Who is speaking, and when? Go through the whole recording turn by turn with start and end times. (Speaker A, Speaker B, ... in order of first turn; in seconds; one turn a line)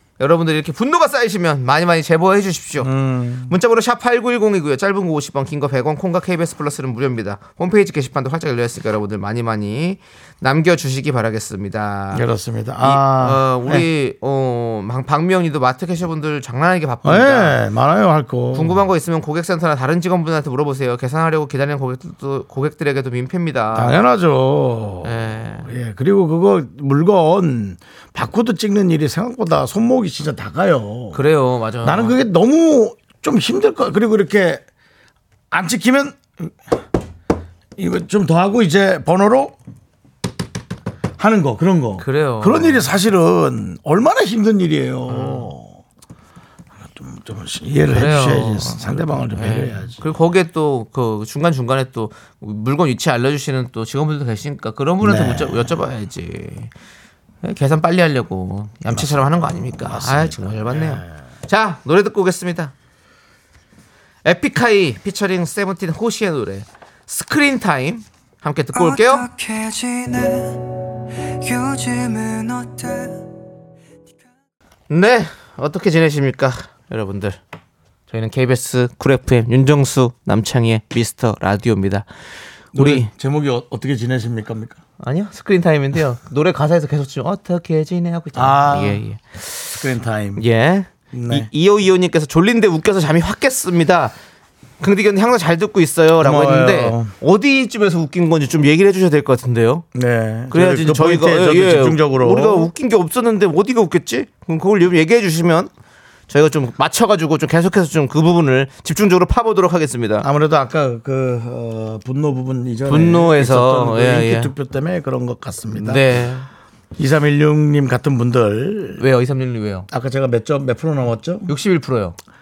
Speaker A: 0.2-2.9
Speaker B: 2.8-3.5
Speaker A: 3.5-12.3
Speaker B: 12.1-13.9
Speaker A: 12.8-17.6
Speaker B: 17.0-18.8
Speaker A: 18.5-24.0
Speaker B: 23.8-31.2
Speaker A: 25.0-25.7
Speaker A: 31.1-32.2
Speaker B: 31.8-34.6
Speaker B: 35.5-36.5
Speaker B: 37.8-39.6
Speaker B: 41.2-45.8
Speaker A: 42.0-42.9
Speaker A: 45.1-45.5
Speaker B: 46.9-50.0
Speaker A: 47.9-56.7
Speaker B: 55.0-55.8
Speaker A: 57.4-62.7
Speaker B: 58.9-61.1
Speaker A: 64.2-69.3
Speaker C: 68.7-70.7
Speaker C: 71.4-73.2
Speaker A: 74.9-77.4
Speaker A: 78.1-82.1
Speaker A: 82.7-83.1
Speaker B: 82.7-84.8
Speaker A: 85.0-89.7
Speaker B: 88.3-89.0
Speaker B: 89.8-90.4
Speaker A: 90.4-94.2
Speaker B: 91.1-91.5
Speaker A: 94.8-99.8
Speaker B: 96.2-97.1
Speaker B: 99.9-102.7
Speaker A: 100.5-105.7
Speaker A: 106.3-110.3
Speaker B: 110.2-116.0
Speaker A: 112.9-114.5
Speaker A: 115.8-116.5
Speaker B: 117.0-119.0
Speaker A: 119.0-119.9
Speaker B: 119.9-121.5
Speaker A: 121.5-122.2